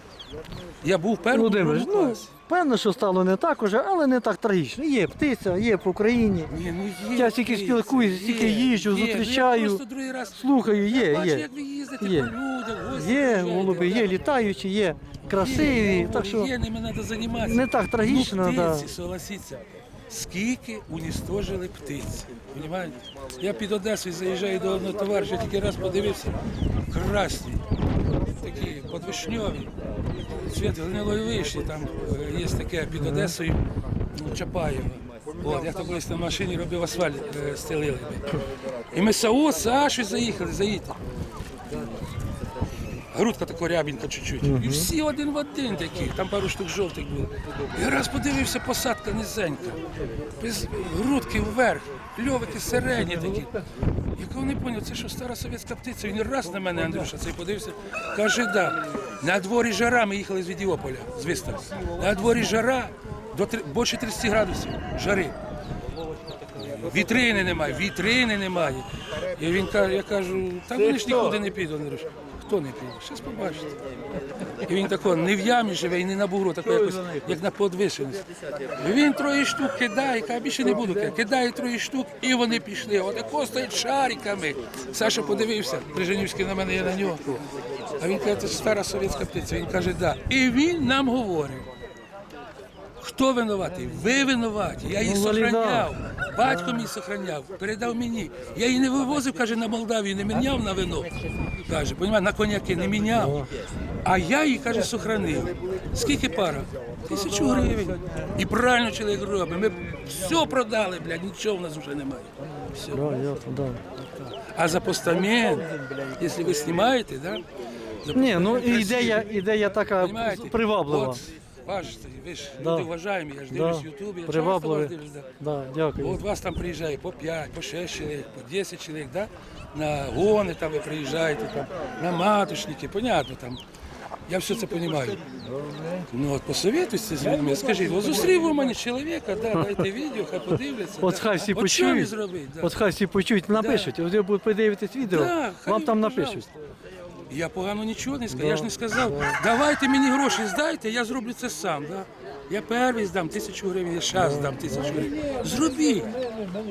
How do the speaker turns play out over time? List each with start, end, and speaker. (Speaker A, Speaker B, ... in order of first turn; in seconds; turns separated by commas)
Speaker A: 0.8-2.3, Speaker B: 1.3-6.5, Speaker A: 6.5-14.2, Speaker B: 7.2-9.8, Speaker B: 10.3-11.5, Speaker B: 12.0-12.3, Speaker B: 12.9-16.5, Speaker A: 15.2-27.6, Speaker B: 17.4-18.9, Speaker A: 28.2-29.7, Speaker A: 30.3-33.6, Speaker B: 32.9-33.4, Speaker A: 34.1-38.4, Speaker A: 38.9-41.0, Speaker A: 43.1-49.8, Speaker B: 44.4-44.9, Speaker A: 50.4-53.5, Speaker A: 54.2-65.4, Speaker A: 66.6-73.8, Speaker A: 74.6-78.3, Speaker A: 78.8-91.7, Speaker A: 93.0-103.5, Speaker B: 95.0-95.9, Speaker B: 96.4-96.9, Speaker B: 103.1-103.5, Speaker A: 104.0-112.8, Speaker B: 112.9-113.8, Speaker A: 114.2-117.5, Speaker A: 118.0-119.3, Speaker B: 118.1-121.2, Speaker A: 120.0-125.3, Speaker B: 122.6-122.9, Speaker B: 123.5-126.2, Speaker A: 126.0-133.6, Speaker A: 134.3-135.2, Speaker A: 136.1-142.8, Speaker B: 141.0-146.5, Speaker A: 143.5-143.9, Speaker A: 145.1-146.4, Speaker A: 147.3-156.2, Speaker B: 148.3-149.4, Speaker B: 154.1-155.0